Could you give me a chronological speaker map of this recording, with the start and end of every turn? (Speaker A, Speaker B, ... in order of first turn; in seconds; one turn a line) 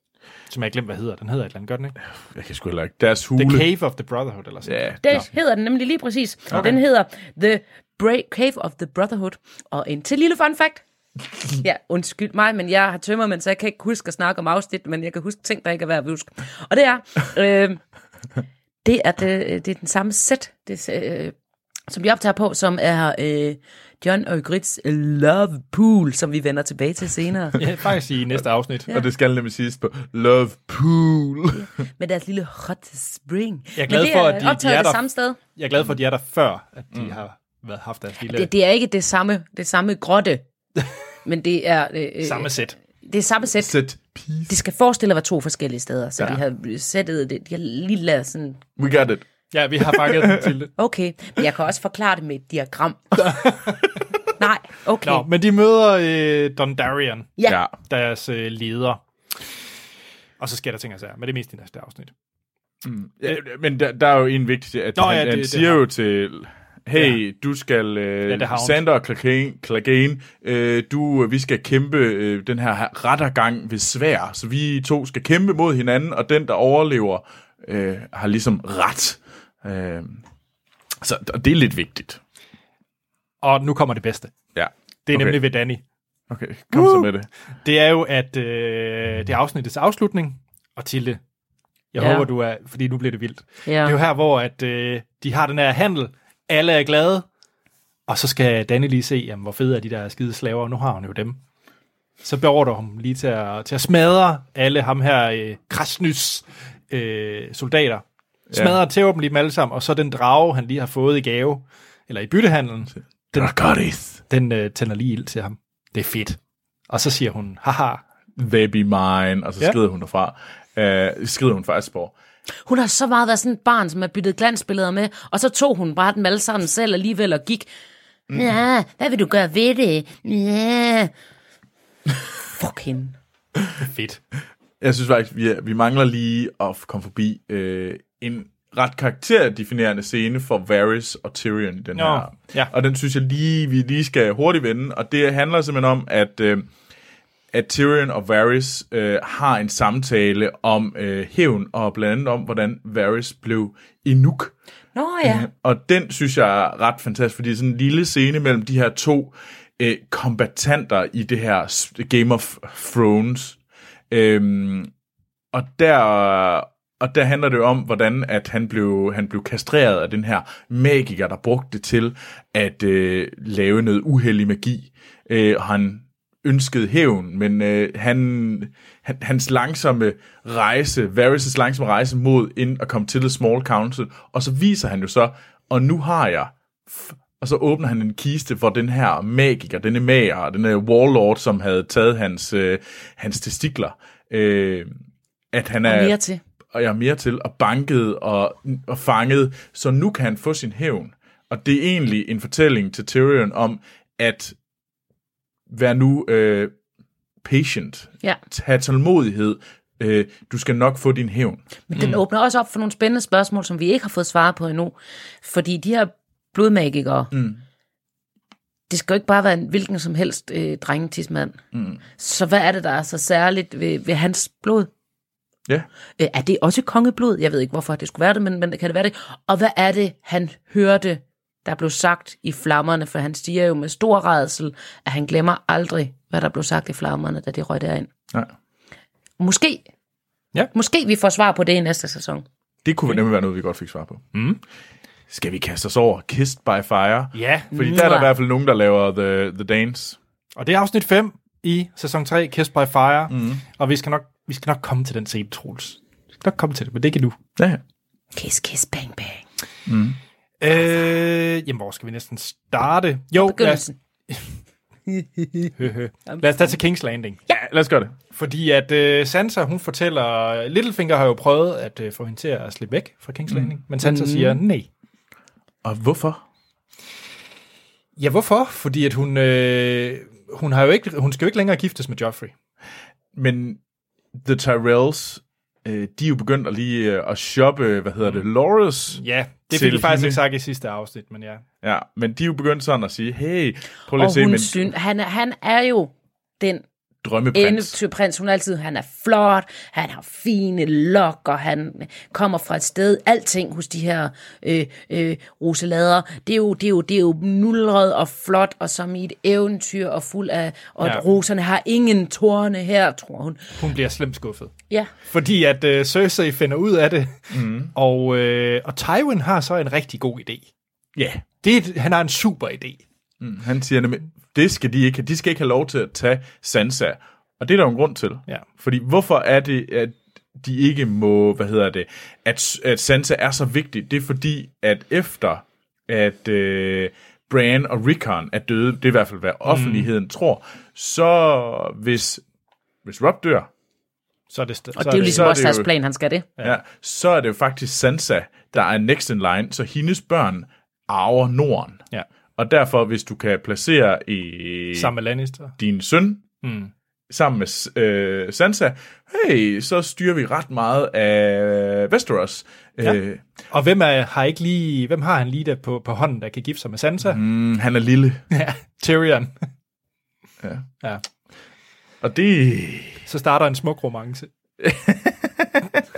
Speaker A: 0.5-2.0
Speaker B: 2.2-3.7
Speaker A: 3.4-5.3
Speaker B: 4.7-5.3
Speaker C: 5.0-10.8
Speaker C: 11.6-17.8
Speaker C: 18.8-21.3
Speaker C: 21.9-27.6
Speaker A: 27.6-28.9
Speaker B: 28.9-31.7
Speaker C: 31.6-35.4
Speaker A: 33.8-35.0
Speaker A: 35.5-38.5
Speaker C: 38.3-40.4
Speaker C: 41.2-43.8
Speaker A: 42.2-42.8
Speaker B: 43.5-44.5
Speaker C: 44.5-48.6
Speaker B: 48.8-49.3
Speaker A: 49.5-50.7
Speaker B: 49.9-50.4
Speaker C: 50.8-53.3
Speaker A: 53.2-53.8
Speaker C: 54.4-55.3
Speaker A: 55.0-57.3
Speaker B: 57.5-57.7
Speaker A: 57.9-59.0
Speaker A: 60.4-62.1
Speaker B: 62.8-80.2
Speaker A: 65.0-65.8
Speaker A: 68.3-68.8
Speaker B: 81.0-82.2
Speaker A: 83.4-84.3
Speaker B: 84.5-85.4
Speaker A: 85.1-85.8
Speaker B: 86.3-87.3
Speaker A: 86.7-87.1
Speaker A: 87.6-91.2
Speaker A: 91.9-97.3
Speaker C: 92.0-92.3
Speaker C: 93.7-94.0
Speaker A: 98.1-101.4
Speaker A: 102.2-113.6
Speaker B: 108.5-108.8
Speaker B: 113.3-114.2
Speaker A: 114.2-116.4
Speaker A: 116.9-118.0
Speaker B: 118.4-122.1
Speaker C: 122.7-127.7
Speaker C: 128.3-131.1
Speaker C: 132.6-133.2
Speaker A: 133.8-134.2
Speaker B: 134.8-146.7
Speaker A: 142.0-142.7
Speaker B: 147.5-154.5
Speaker C: 154.9-155.5
Speaker B: 155.2-163.6
Speaker B: 164.1-164.9
Speaker B: 165.5-195.0
Speaker B: 195.5-196.2
Speaker C: 195.8-196.4
Speaker B: 196.7-204.6
Speaker B: 205.7-206.7
Speaker B: 207.4-212.2
Speaker C: 211.9-217.3
Speaker B: 217.3-217.6
Speaker C: 218.9-221.6
Speaker B: 221.7-222.0
Speaker C: 222.2-224.9
Speaker C: 226.2-238.1
Speaker C: 239.4-239.8
Speaker C: 240.7-242.4
Speaker B: 242.8-244.2
Speaker A: 244.3-244.6
Speaker B: 245.3-250.2
Speaker A: 247.3-247.7
Speaker C: 247.7-248.3
Speaker A: 250.6-257.4
Speaker B: 253.3-253.6
Speaker C: 258.3-259.4
Speaker B: 259.9-260.2
Speaker A: 260.6-264.5
Speaker C: 263.4-263.9
Speaker C: 265.1-265.7
Speaker A: 265.8-267.4
Speaker B: 267.5-268.1
Speaker A: 268.3-274.9
Speaker B: 273.5-273.8
Speaker C: 274.0-274.6
Speaker B: 275.8-276.4
Speaker A: 278.2-282.5
Speaker B: 283.4-283.8
Speaker B: 284.4-290.4
Speaker A: 289.1-291.6
Speaker B: 291.8-294.9
Speaker C: 294.1-296.8
Speaker B: 297.2-298.0
Speaker C: 297.5-313.7
Speaker A: 313.8-314.7
Speaker A: 315.3-320.7
Speaker B: 317.5-317.9
Speaker B: 321.2-321.4
Speaker A: 321.6-323.0
Speaker B: 323.4-342.4
Speaker A: 339.7-340.1
Speaker B: 343.1-343.7
Speaker A: 344.5-345.6
Speaker C: 345.0-346.5
Speaker B: 345.2-345.9
Speaker B: 346.6-352.0
Speaker B: 352.6-355.1
Speaker A: 354.9-355.8
Speaker B: 355.8-356.4
Speaker A: 356.6-356.9
Speaker B: 357.3-363.4
Speaker A: 363.7-367.4
Speaker B: 367.2-368.4
Speaker A: 368.5-369.5
Speaker B: 372.2-373.2
Speaker A: 373.3-374.5
Speaker B: 374.8-375.9